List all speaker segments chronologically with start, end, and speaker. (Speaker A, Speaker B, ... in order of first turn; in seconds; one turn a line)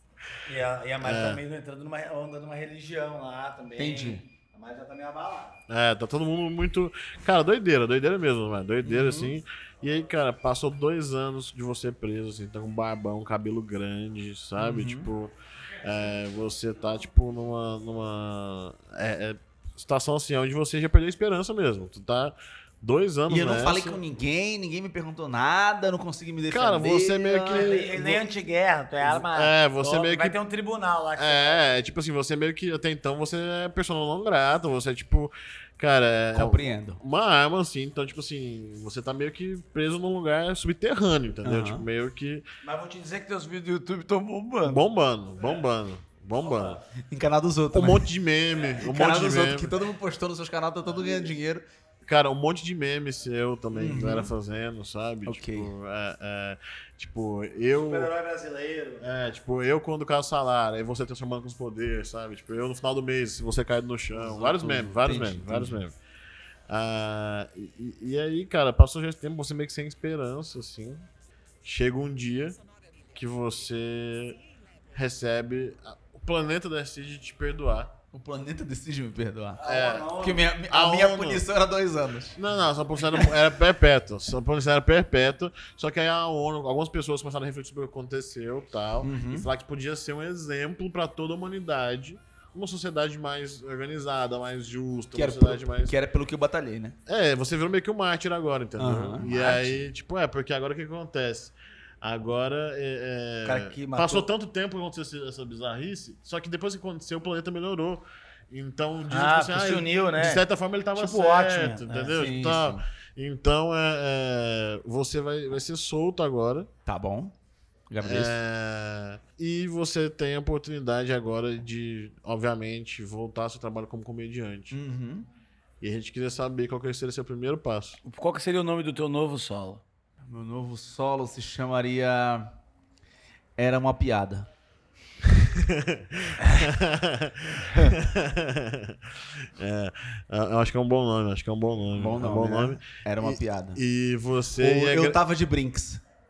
Speaker A: 0.5-5.6
Speaker B: 1.0-1.4
Speaker C: 3.8-4.2
Speaker B: 5.7-24.0
Speaker C: 8.8-9.4
Speaker C: 14.6-15.1
Speaker C: 23.3-28.2
Speaker B: 26.5-27.9
Speaker A: 27.5-31.6
Speaker B: 29.0-30.4
Speaker B: 31.1-42.4
Speaker C: 36.3-37.0
Speaker C: 41.4-41.8
Speaker A: 42.6-44.8
Speaker B: 44.6-46.8
Speaker A: 46.5-46.7
Speaker C: 47.0-48.1
Speaker B: 47.7-49.8
Speaker C: 48.8-51.6
Speaker B: 52.0-58.1
Speaker C: 53.7-54.3
Speaker C: 55.2-55.7
Speaker A: 57.8-59.0
Speaker B: 59.0-65.9
Speaker C: 64.2-65.8
Speaker B: 66.7-71.0
Speaker B: 71.6-72.6
Speaker B: 73.1-74.4
Speaker B: 74.9-77.9
Speaker C: 78.1-79.6
Speaker A: 79.6-80.5
Speaker B: 79.6-80.1
Speaker C: 80.2-82.4
Speaker B: 80.7-81.4
Speaker B: 82.3-95.9
Speaker C: 89.0-89.5
Speaker C: 95.1-97.0
Speaker B: 97.1-116.7
Speaker C: 98.8-99.8
Speaker A: 103.4-104.3
Speaker A: 109.1-112.1
Speaker C: 112.0-112.8
Speaker C: 116.8-117.3
Speaker C: 117.9-118.3
Speaker B: 118.0-124.7
Speaker C: 124.7-125.3
Speaker B: 125.8-128.0
Speaker A: 128.0-129.8
Speaker C: 130.3-132.5
Speaker C: 133.6-134.5
Speaker B: 135.2-145.2
Speaker C: 141.9-143.8
Speaker C: 144.6-146.0